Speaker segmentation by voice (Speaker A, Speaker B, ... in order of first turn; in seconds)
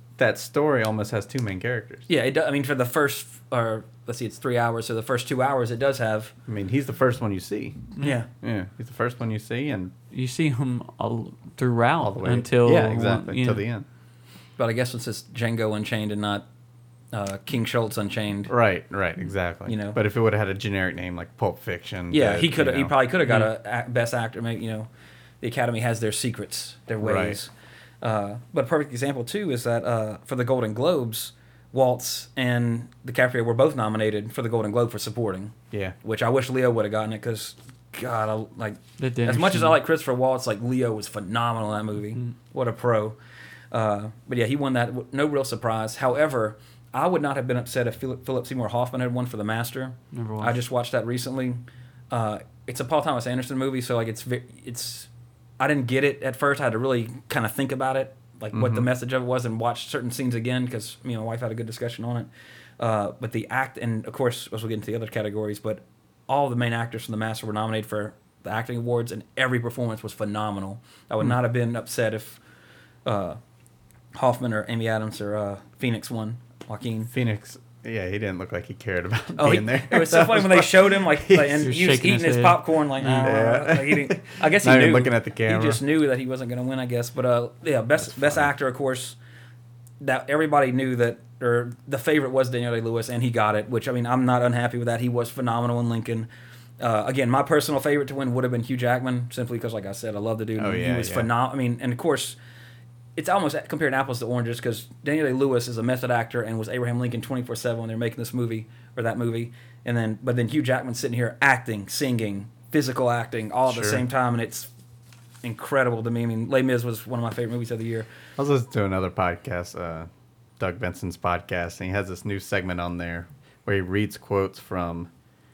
Speaker A: 0.2-2.0, 6.5-9.9, 12.0-13.9, 18.5-22.9, 27.0-27.4, 35.7-36.0, 58.5-58.9, 77.1-81.7, 83.2-85.8, 88.0-88.5, 100.6-101.3, 113.7-114.0, 118.4-125.1
Speaker B: 2.1-6.3, 8.0-8.3, 14.6-16.5, 17.1-18.5, 19.7-20.0, 22.1-24.9, 25.4-43.2, 43.7-72.4, 73.0-73.4, 74.2-77.1, 79.4-89.2, 90.0-96.3, 96.8-102.4, 103.2-114.7, 115.4-118.1
Speaker C: 10.1-13.6, 39.0-39.8, 50.1-50.6, 81.6-83.3